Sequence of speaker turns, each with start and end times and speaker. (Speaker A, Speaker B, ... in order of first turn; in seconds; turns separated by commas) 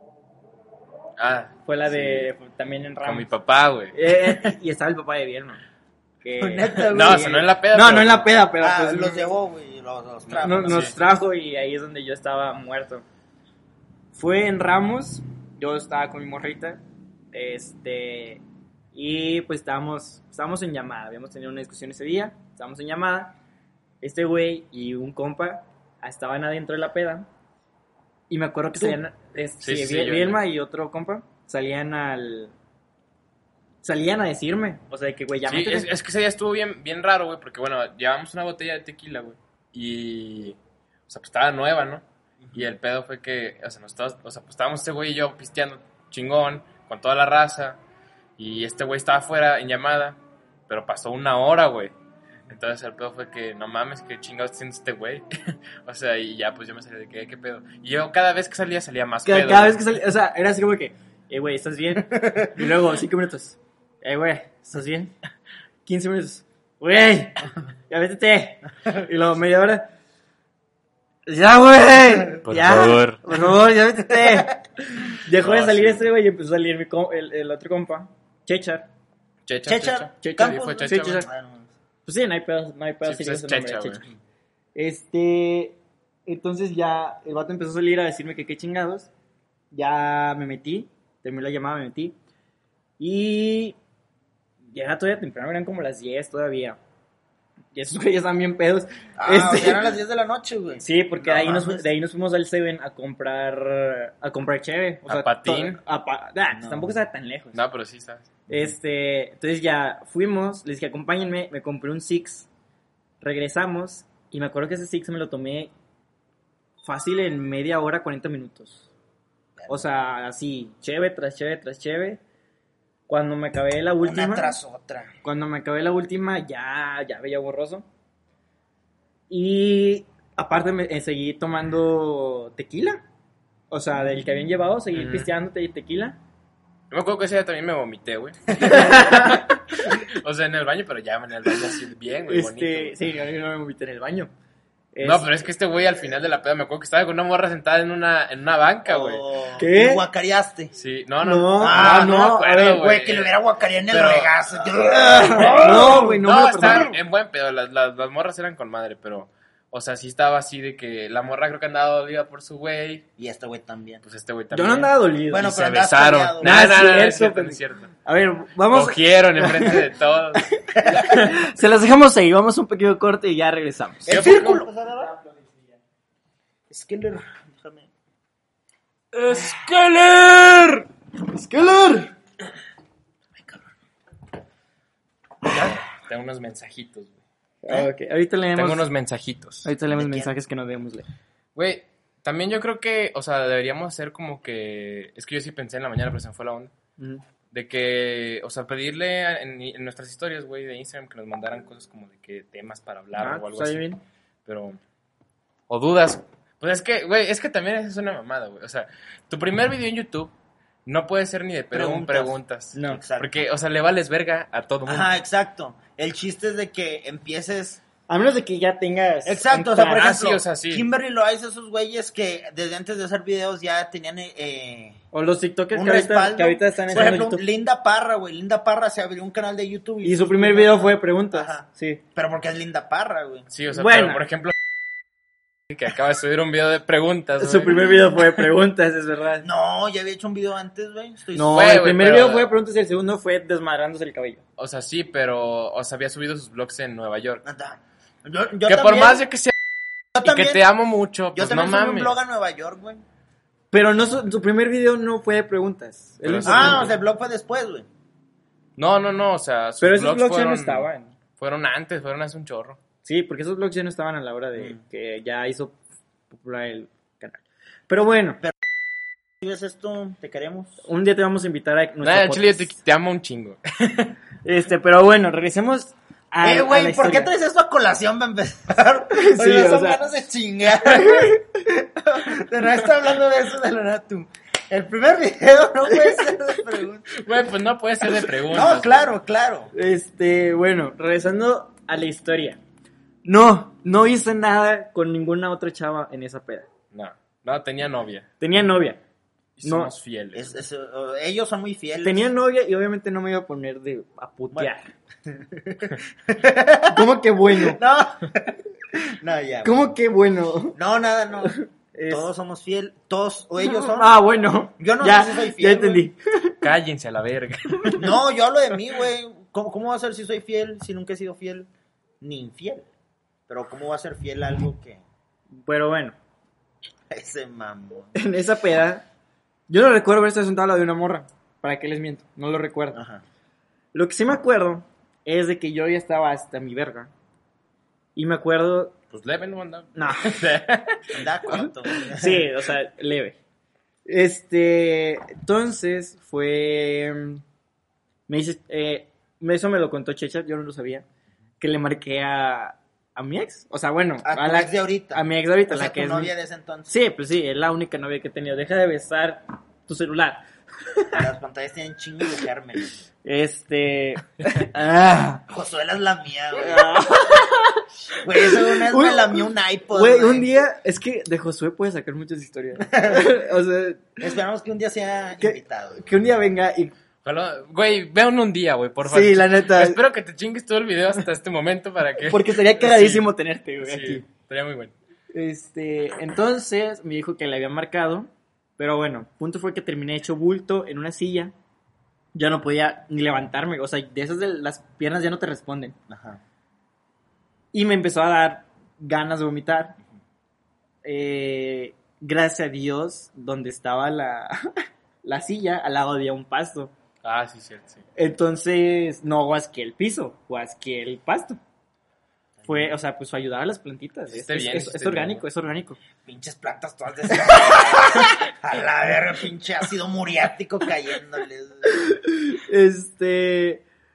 Speaker A: 1.2-2.3, Speaker B: 1.7-3.3, Speaker A: 3.0-4.4, Speaker B: 3.9-5.6, Speaker B: 6.2-9.3, Speaker C: 6.4-7.5, Speaker A: 6.9-8.4, Speaker C: 8.6-11.0, Speaker B: 10.4-13.0, Speaker A: 10.5-10.9, Speaker B: 14.1-16.8, Speaker B: 17.3-18.4, Speaker B: 18.9-23.4, Speaker B: 24.0-27.3, Speaker B: 28.3-32.5, Speaker A: 29.6-30.4, Speaker B: 33.8-35.9, Speaker A: 35.5-47.8, Speaker C: 42.4-42.7, Speaker A: 48.4-51.9, Speaker A: 52.5-59.8, Speaker B: 59.2-65.1, Speaker B: 65.9-69.9, Speaker B: 71.3-74.6, Speaker A: 72.5-73.2, Speaker B: 75.2-78.9, Speaker A: 75.3-76.1, Speaker A: 79.5-81.2, Speaker C: 79.7-81.7, Speaker B: 80.2-81.3, Speaker B: 82.0-84.1, Speaker A: 83.0-84.0, Speaker B: 84.8-89.1, Speaker B: 89.7-92.2, Speaker B: 93.0-93.8, Speaker B: 94.7-96.8, Speaker B: 97.7-99.9, Speaker C: 99.2-101.9, Speaker B: 100.8-107.6, Speaker A: 105.1-105.8, Speaker C: 106.5-106.9, Speaker A: 107.5-108.3, Speaker B: 108.5-112.5, Speaker B: 113.2-115.7, Speaker B: 116.8-118.9, Speaker C: 119.6-119.8, Speaker B: 119.7-122.2, Speaker B: 123.1-124.5, Speaker C: 124.0-125.1, Speaker B: 125.2-127.9, Speaker B: 129.3-133.0, Speaker B: 133.7-136.2, Speaker A: 134.9-135.3, Speaker A: 136.9-143.0, Speaker B: 138.6-139.4, Speaker B: 142.3-144.3, Speaker B: 144.9-145.3, Speaker A: 145.0-149.2, Speaker C: 148.8-150.7, Speaker B: 149.6-150.0, Speaker A: 150.7-153.3, Speaker B: 151.2-152.5, Speaker C: 151.6-156.9, Speaker A: 153.9-154.4, Speaker B: 155.2-156.9, Speaker A: 155.3-163.1, Speaker C: 163.2-164.0, Speaker A: 164.0-167.9, Speaker B: 164.5-165.6, Speaker C: 165.3-166.7, Speaker B: 166.4-169.8, Speaker A: 168.7-171.3, Speaker C: 170.8-171.1, Speaker B: 170.9-174.3, Speaker C: 174.1-175.2, Speaker A: 174.1-174.6, Speaker C: 176.7-177.9, Speaker B: 179.3-180.0, Speaker A: 179.3-180.7, Speaker B: 181.2-182.1, Speaker A: 185.5-187.2, Speaker B: 187.6-188.8, Speaker A: 188.6-189.7, Speaker B: 189.6-191.1, Speaker C: 189.9-190.3, Speaker A: 191.6-196.7, Speaker A: 197.5-203.9, Speaker B: 203.2-204.0, Speaker A: 204.5-204.8, Speaker A: 205.7-210.3, Speaker A: 210.9-215.1, Speaker C: 211.7-213.3, Speaker B: 212.8-213.0, Speaker C: 214.8-217.8, Speaker B: 218.1-220.1, Speaker C: 219.2-225.0, Speaker A: 219.8-220.9, Speaker B: 225.1-227.4, Speaker C: 225.7-233.5, Speaker B: 230.0-232.0, Speaker A: 233.5-234.6, Speaker B: 233.7-234.2, Speaker A: 235.7-238.0, Speaker B: 237.4-239.5, Speaker C: 239.4-241.7, Speaker B: 241.3-244.4, Speaker A: 241.4-242.5, Speaker A: 244.6-247.4, Speaker C: 247.4-249.2, Speaker A: 248.7-249.5, Speaker C: 250.2-250.6, Speaker A: 250.2-252.2, Speaker C: 251.3-253.1, Speaker B: 253.7-256.9, Speaker A: 256.2-256.9, Speaker C: 256.4-257.9, Speaker A: 258.8-260.9, Speaker B: 259.8-261.1, Speaker A: 261.4-262.8, Speaker B: 263.1-265.8, Speaker B: 266.3-268.4, Speaker C: 269.4-270.8, Speaker B: 270.8-272.7, Speaker A: 272.0-274.2, Speaker B: 274.4-277.3, Speaker C: 276.4-287.1, Speaker B: 279.1-280.0, Speaker B: 280.9-281.4, Speaker B: 285.9-286.2, Speaker A: 287.1-289.1, Speaker C: 288.5-289.7, Speaker B: 289.7-292.6, Speaker B: 293.2-296.7, Speaker A: 296.9-298.3, Speaker B: 298.4-299.0, Speaker A: 299.6-300.6, Speaker B: 299.6-299.9, Speaker C: 300.3-302.3, Speaker B: 302.0-304.9, Speaker C: 305.3-309.9, Speaker B: 306.9-307.8, Speaker B: 309.6-310.8, Speaker C: 310.8-311.6, Speaker B: 311.5-312.3, Speaker C: 312.1-314.1, Speaker B: 313.6-316.6, Speaker C: 314.8-316.1, Speaker A: 316.6-318.0, Speaker B: 317.8-318.0, Speaker C: 318.0-321.7, Speaker C: 322.2-322.9, Speaker C: 323.5-325.0, Speaker B: 325.5-326.2, Speaker C: 327.1-328.2, Speaker B: 328.1-329.1, Speaker B: 329.7-333.0, Speaker C: 332.9-333.2, Speaker B: 333.9-337.1, Speaker B: 338.1-338.9, Speaker A: 339.1-341.0, Speaker B: 340.0-340.4, Speaker C: 341.1-342.5, Speaker B: 341.5-343.4, Speaker B: 344.1-347.4, Speaker B: 348.3-351.1, Speaker B: 351.6-356.3, Speaker C: 354.2-356.9, Speaker B: 356.9-360.4, Speaker B: 361.0-361.2, Speaker C: 361.1-363.1, Speaker B: 363.2-365.4, Speaker C: 365.5-367.0, Speaker B: 366.6-374.2, Speaker C: 368.2-370.5, Speaker C: 372.8-373.3, Speaker C: 374.2-376.0, Speaker B: 375.4-376.9, Speaker A: 377.2-383.3, Speaker B: 379.1-380.0, Speaker B: 382.3-384.2, Speaker A: 383.8-384.9, Speaker B: 385.3-391.5, Speaker B: 392.3-395.9, Speaker C: 396.1-396.4, Speaker B: 397.7-400.0, Speaker B: 401.0-406.9, Speaker A: 407.2-408.0, Speaker B: 408.2-411.6, Speaker C: 412.6-412.9, Speaker B: 412.7-416.0, Speaker A: 414.3-415.4, Speaker C: 416.2-421.9, Speaker B: 421.9-423.8